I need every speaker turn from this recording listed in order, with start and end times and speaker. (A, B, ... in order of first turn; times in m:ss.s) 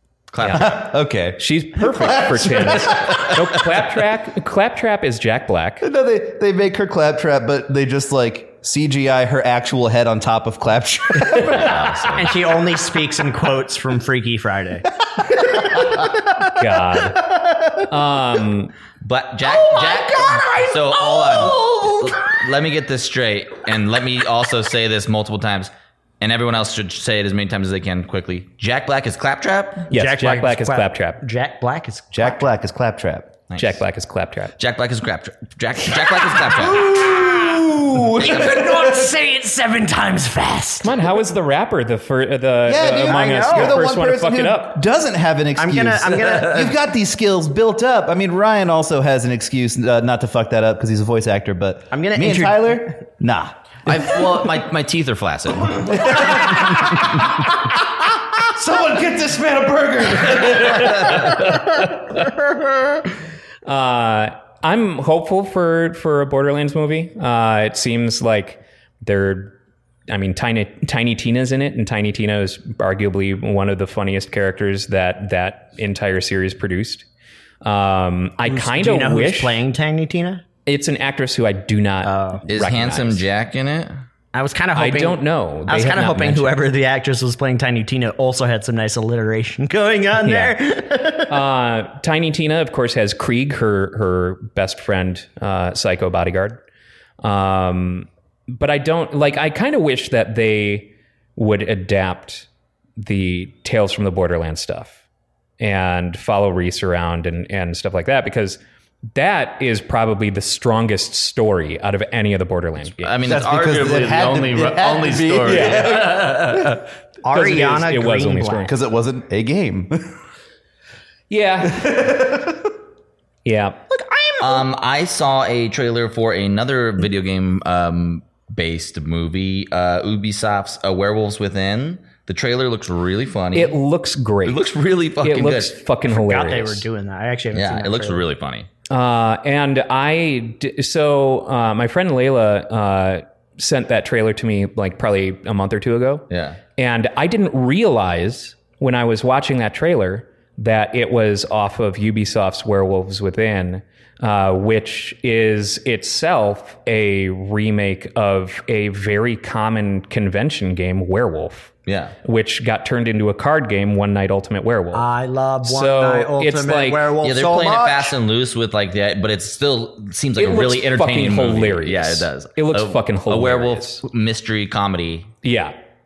0:00.3-0:00.8 A
0:00.4-0:00.7 B
0:00.5-0:03.8 C
0:01.4-0:05.8 B
0:05.8-0:11.9 C
0:11.2-0:11.6 B
0:11.4-0:12.4 A
0:12.2-0:17.8 D
0:16.6-0:17.2 B
0:17.8-0:18.7 B
0:19.0-0:29.9 A
0:19.4-0:22.4 D
0:29.9-0:32.5 D
0:29.9-0:31.2 B
0:32.1-0:33.4 C
0:33.5-0:33.8 A
0:33.6-0:34.5 B
0:34.6-0:36.9 A
0:36.6-0:39.1 C
0:36.7-0:37.6 D
0:38.2-0:41.0 D
0:40.8-0:44.8 B
0:42.6-0:53.9 C
0:43.0-0:43.8 D
0:45.6-0:46.7 D
0:51.9-0:53.0 D
0:53.9-0:56.2 A
0:55.8-0:57.5 C
0:58.4-1:01.3 C
1:00.5-1:00.8 B
1:03.6-1:09.6 B
1:10.1-1:17.0 B
1:17.6-1:19.6 B
1:18.4-1:20.4 D
1:20.6-1:23.2 B
1:22.0-1:22.4 D
1:22.5-1:24.0 A
1:24.3-1:31.4 D
1:24.7-1:26.6 B
1:30.2-1:30.6 B
1:31.3-1:36.6 B
1:37.2-1:45.0 B
1:45.6-1:48.6 B
1:49.1-1:53.2 B
1:53.0-1:56.7 A
1:53.2-1:56.8 C
1:55.4-1:56.0 B
1:57.2-1:58.7 D
1:57.3-1:58.7 B
1:58.6-2:00.2 C
2:01.3-2:01.9 B
2:01.7-2:02.7 C
2:03.4-2:03.8 B
2:03.9-2:04.7 D
2:04.4-2:13.8 A
2:13.5-2:14.6 B
2:14.4-2:15.8 A
2:15.2-2:16.9 B
2:16.1-2:18.2 D
2:17.5-2:18.7 A
2:18.9-2:26.2 B
2:26.3-2:26.6 A
2:26.8-2:41.7 B
2:41.9-2:42.2 A
2:42.2-2:45.1 B
2:44.9-2:48.1 D
2:45.6-2:47.1 B
2:47.2-2:55.3 A
2:50.4-2:54.0 B
2:55.4-2:55.8 B